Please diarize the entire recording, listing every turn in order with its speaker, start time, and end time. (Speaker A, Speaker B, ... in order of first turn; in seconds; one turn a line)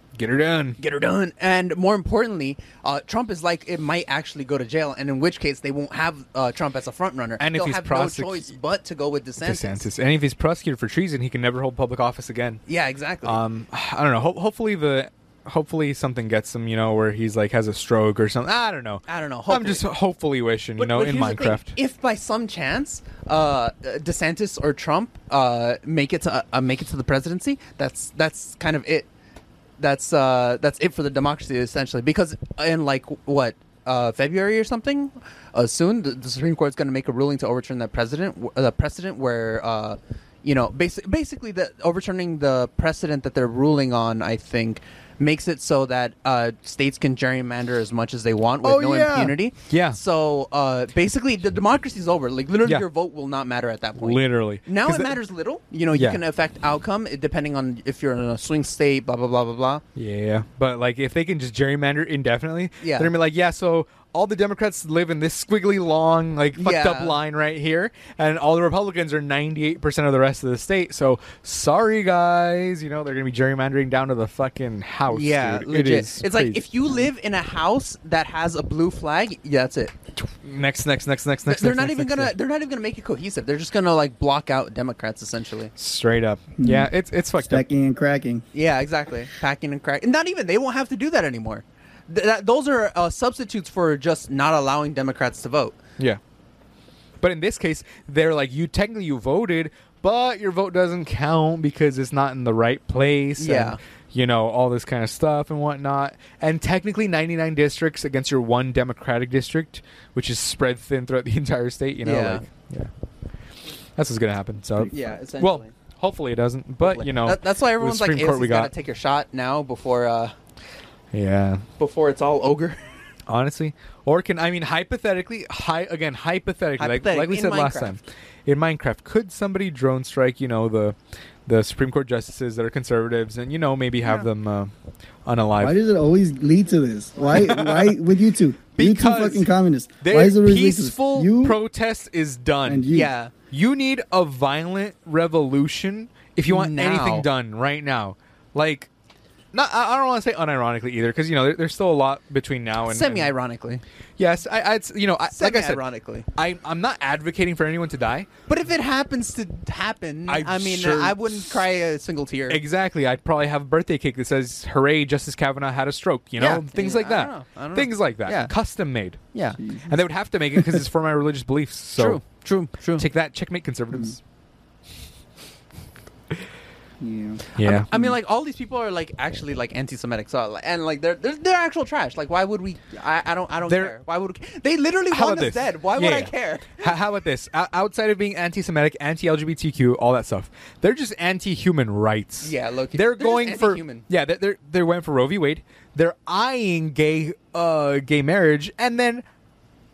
Speaker A: 0.1-0.8
Speaker B: 0.8-9.9
Speaker A: 7.4-8.5
Speaker A: 9.4-12.6
Speaker B: 12.7-13.4
Speaker A: 13.2-21.8
Speaker B: 19.1-19.8
Speaker B: 20.8-29.1
Speaker B: 29.8-59.8
Speaker A: 48.6-50.0
Speaker A: 54.0-55.2
Speaker A: 55.9-56.2
Speaker A: 60.0-76.7
Speaker B: 62.8-63.1
Speaker B: 66.5-67.2
Speaker B: 75.1-80.0
Speaker A: 80.4-82.3
Speaker B: 81.5-85.7
Speaker A: 85.8-87.7
Speaker C: 86.6-88.5
Speaker B: 88.5-95.8
Speaker A: 97.2-112.9
Speaker B: 103.4-103.8
Speaker B: 112.0-112.5
Speaker A: 114.0-118.7
Speaker B: 114.9-115.7
Speaker B: 116.8-120.3
Speaker A: 121.1-121.7
Speaker B: 121.8-122.8
Speaker A: 123.3-134.7
Speaker B: 126.8-128.0
Speaker A: 135.3-135.8
Speaker C: 135.6-141.6
Speaker A: 137.4-137.9
Speaker A: 138.8-139.5
Speaker A: 140.0-142.9
Speaker C: 142.7-143.1
Speaker B: 142.9-143.3
Speaker A: 143.5-148.9
Speaker B: 146.5-147.3
Speaker A: 149.5-153.3
Speaker B: 152.9-153.8
Speaker A: 154.2-155.8
Speaker B: 155.3-156.3
Speaker A: 156.3-158.3
Speaker B: 158.5-162.6
Speaker A: 160.3-161.6
Speaker A: 162.5-169.2
Speaker B: 166.4-168.5
Speaker B: 169.3-169.6
Speaker C: 169.6-170.0
Speaker A: 169.8-172.2
Speaker B: 172.0-173.0
Speaker A: 173.0-174.2
Speaker C: 177.0-178.1
Speaker B: 177.6-186.9
Speaker A: 177.6-177.9
Speaker A: 183.7-183.9
Speaker A: 185.1-199.2
Speaker B: 192.4-194.1